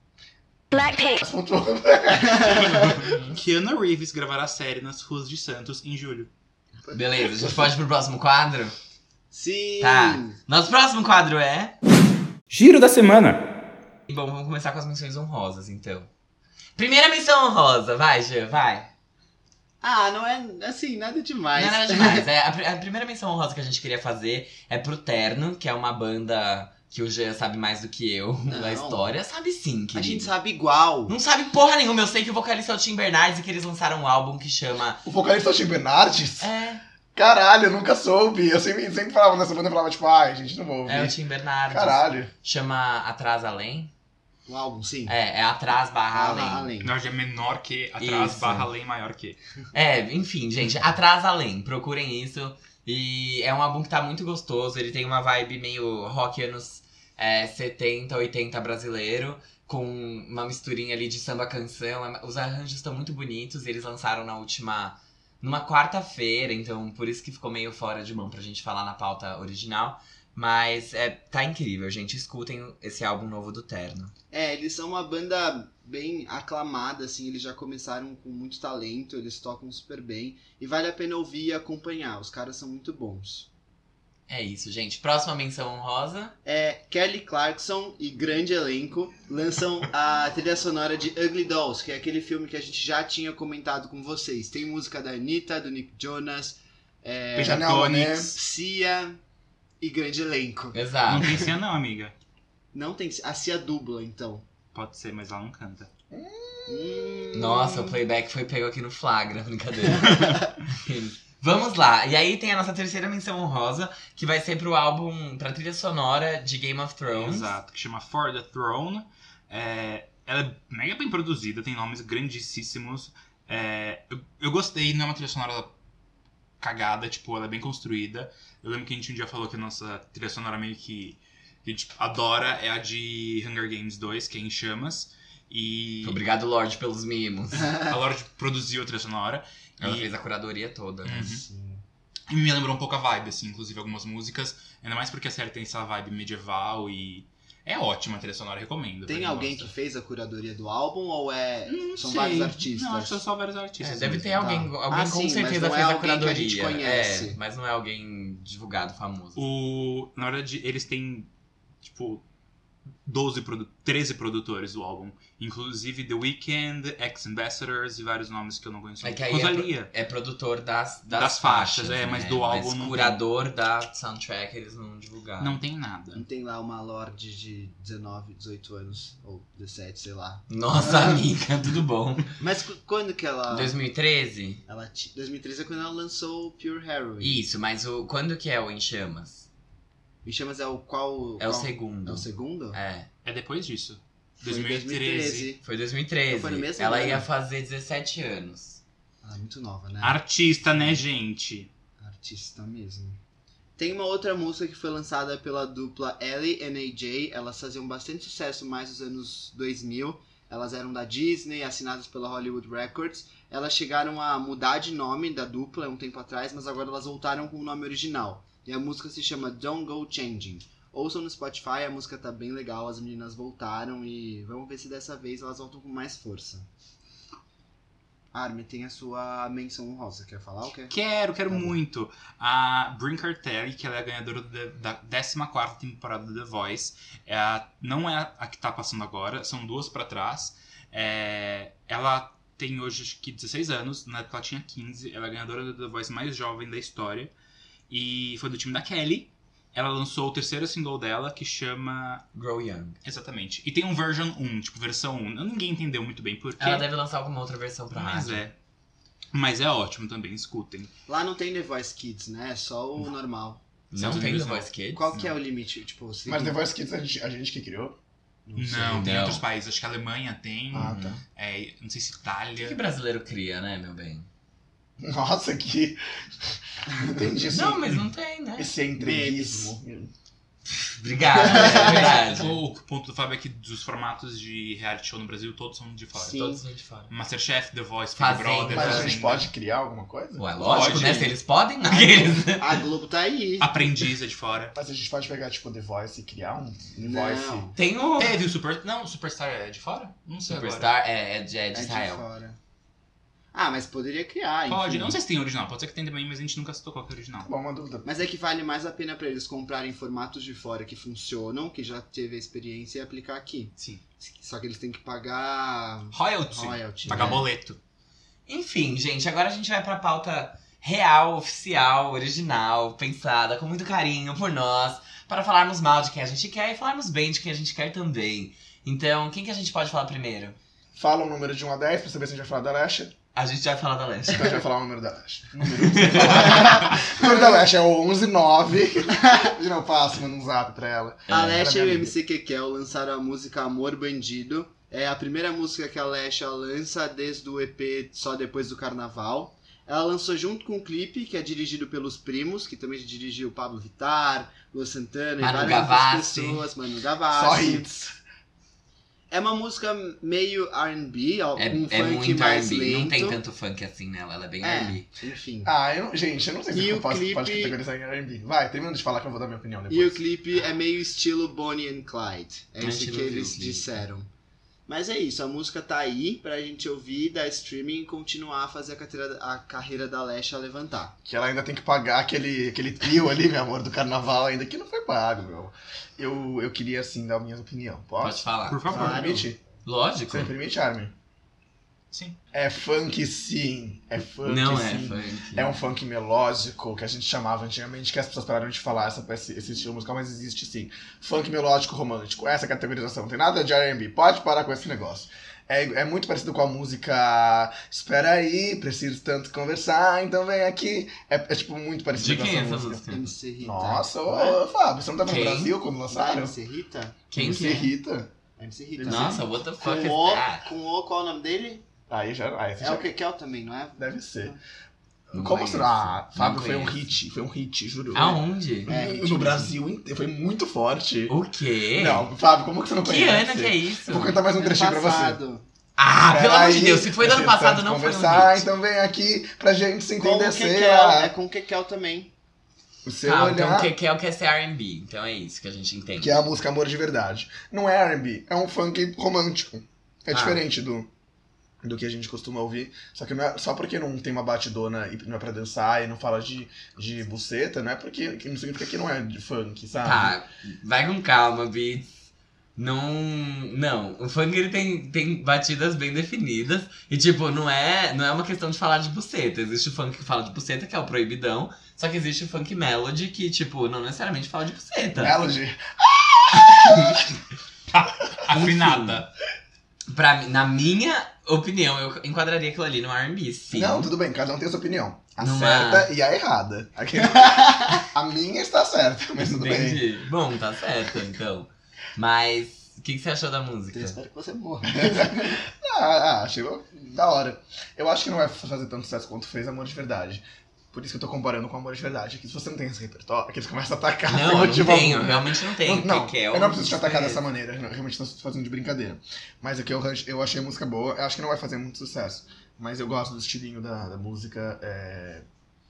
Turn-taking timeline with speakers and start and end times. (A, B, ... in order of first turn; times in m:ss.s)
0:00.8-0:02.8 A
0:02.2-0:03.0 B
0:02.5-0:06.3 C
0:06.8-0:07.5 B
0:06.9-0:08.8 D
0:09.3-0:10.4 B
0:09.8-0:11.8 D
0:12.5-0:13.5 C
0:14.1-0:16.1 D
0:16.8-0:18.9 D
0:19.8-0:22.3 B
0:21.6-0:30.3 D
0:28.5-0:29.1 B
0:30.0-0:31.2 B
0:31.1-0:35.0 D
0:35.0-0:36.5 A
0:36.4-0:36.8 D
0:37.2-0:41.2 A
0:40.9-0:43.9 D
0:41.7-0:42.3 A
0:44.5-0:45.2 B
0:45.1-0:46.7 D
0:46.1-0:46.9 B
0:46.8-0:49.4 C
0:48.0-0:48.7 D
0:49.7-1:14.1 D
1:14.3-1:23.5 B
1:24.3-1:26.3 D
1:26.4-1:37.7 B
1:37.4-1:38.4 C
1:37.4-1:38.3 A
1:38.3-1:39.2 B
1:39.8-1:40.8 B
1:40.7-1:41.4 D
1:41.1-1:42.1 C
1:42.7-1:44.4 B
1:44.7-1:45.9 C
1:46.1-1:47.3 A
1:46.7-1:48.0 B
1:47.3-1:57.6 D
1:57.1-2:05.7 C
2:06.6-2:16.2 C
2:16.0-2:17.8 D
2:17.6-2:20.1 C
2:19.8-2:21.3 D
2:21.0-2:21.4 C
2:21.2-2:21.8 B
2:22.3-2:29.7 C
2:29.1-2:33.2 B
2:31.7-2:34.4 C
2:33.8-2:37.4 B
2:33.9-2:39.4 D
2:39.4-2:41.3 C
2:41.8-2:42.2 C
2:43.1-2:49.9 C
2:49.0-2:55.6 D
2:51.1-2:53.2 C
2:55.4-2:56.2 C
2:56.2-3:01.2 B
3:00.5-3:02.3 D
3:02.4-3:03.7 B
3:03.5-3:04.6 D
3:04.7-3:07.4 B
3:07.2-3:09.5 D
3:10.2-3:12.8 B
3:11.4-3:13.1 D
3:13.2-3:15.5 C
3:14.4-3:15.6 B
3:15.6-3:18.8 D
3:16.3-3:17.2 B
3:19.2-3:21.0 B
3:20.0-3:21.7 C
3:22.0-3:23.2 B
3:23.8-3:46.7 B
3:48.3-3:51.0 B
3:50.9-4:07.3 C
3:51.5-3:51.8 B
4:07.9-4:12.2 C
4:12.3-4:13.0 D
4:13.0-4:16.9 C
4:16.6-4:18.4 D
4:17.9-4:18.6 C
4:19.3-4:20.9 C
4:21.1-4:23.6 B
4:23.9-4:25.1 D
4:23.9-4:25.3 C
4:24.9-4:26.6 B
4:26.3-4:28.0 A
4:28.5-4:29.2 B
4:28.6-4:32.8 C
4:29.0-4:29.4 D
4:30.7-4:31.2 A
4:30.8-4:31.2 D
4:32.6-4:34.3 D
4:35.0-4:36.0 A
4:37.0-4:38.0 A
4:37.5-4:38.7 D
4:38.6-4:40.1 A
4:39.0-4:39.8 B
4:40.7-4:42.6 D
4:41.2-4:42.4 B
4:41.3-4:49.5 C
4:46.2-4:46.6 B
4:46.4-4:47.1 D
4:48.2-4:49.1 D
4:48.7-4:50.5 A
4:50.4-4:52.8 D
4:50.6-4:51.3 C
4:50.6-4:51.3 B
4:52.4-4:53.7 B
4:53.6-4:54.8 C
4:54.8-4:57.7 A
4:57.0-4:57.8 B
4:57.8-4:58.4 D
4:58.2-5:00.9 C
5:00.5-5:02.2 D
5:01.7-5:02.6 B
5:03.5-5:05.2 B
5:04.7-5:07.5 C
5:07.4-5:08.1 A
5:08.0-5:17.5 B
5:16.1-5:17.8 C
5:17.1-5:17.4 D
5:18.5-5:30.6 D
5:31.0-5:33.1 A
5:33.3-5:34.6 D
5:34.3-5:42.2 A
5:35.8-5:36.8 D
5:36.3-5:37.6 B
5:39.1-5:39.5 B
5:41.3-5:41.6 D
5:41.3-5:57.9 B
5:55.4-5:56.7 D
5:57.3-5:58.2 A
5:59.3-6:03.4 B
6:01.6-6:05.1 D
6:04.6-6:05.7 B
6:05.6-6:10.2 A
6:06.7-6:07.8 B
6:09.9-6:14.3 B
6:12.8-6:13.9 D
6:14.9-6:21.2 B
6:21.3-6:29.6 A
6:28.2-6:28.9 D
6:28.7-6:29.3 C
6:28.9-6:29.5 B
6:29.8-6:30.5 D
6:30.3-6:31.1 A
6:32.1-6:32.4 C
6:32.5-6:53.0 A
6:34.4-6:35.7 D
6:52.2-6:53.3 D
6:53.1-6:54.6 B
6:53.6-6:56.6 A
6:55.2-6:55.8 D
6:56.1-6:57.9 B
6:57.3-6:57.9 D
6:57.4-6:58.3 A
6:58.6-7:01.8 B
6:59.0-6:59.4 A
6:59.0-7:00.7 D
7:02.1-7:03.1 A
7:02.8-7:04.6 B
7:04.0-7:04.6 A
7:05.3-7:07.1 D
7:05.3-7:11.4 A
7:08.1-7:09.0 D
7:08.9-7:09.7 B
7:11.3-7:12.3 D
7:12.0-7:15.4 A
7:13.0-7:14.4 D
7:14.5-7:15.6 B
7:16.0-7:18.7 D
7:16.3-7:21.3 A
7:20.2-7:22.3 B
7:23.1-7:23.9 A
7:23.2-7:26.4 D
7:26.2-7:31.1 A
7:30.3-7:30.6 D
7:31.8-7:40.4 A
7:40.0-7:42.2 D
7:42.8-7:55.4 D
7:55.2-7:57.3 A
7:57.9-7:59.3 C
7:58.5-7:59.2 D
8:00.1-8:04.1 D
8:03.7-8:10.0 A
8:05.4-8:06.1 D
8:07.4-8:08.0 B
8:09.4-8:14.2 D
8:13.9-8:15.6 B
8:14.9-8:35.4 A
8:24.3-8:27.4 D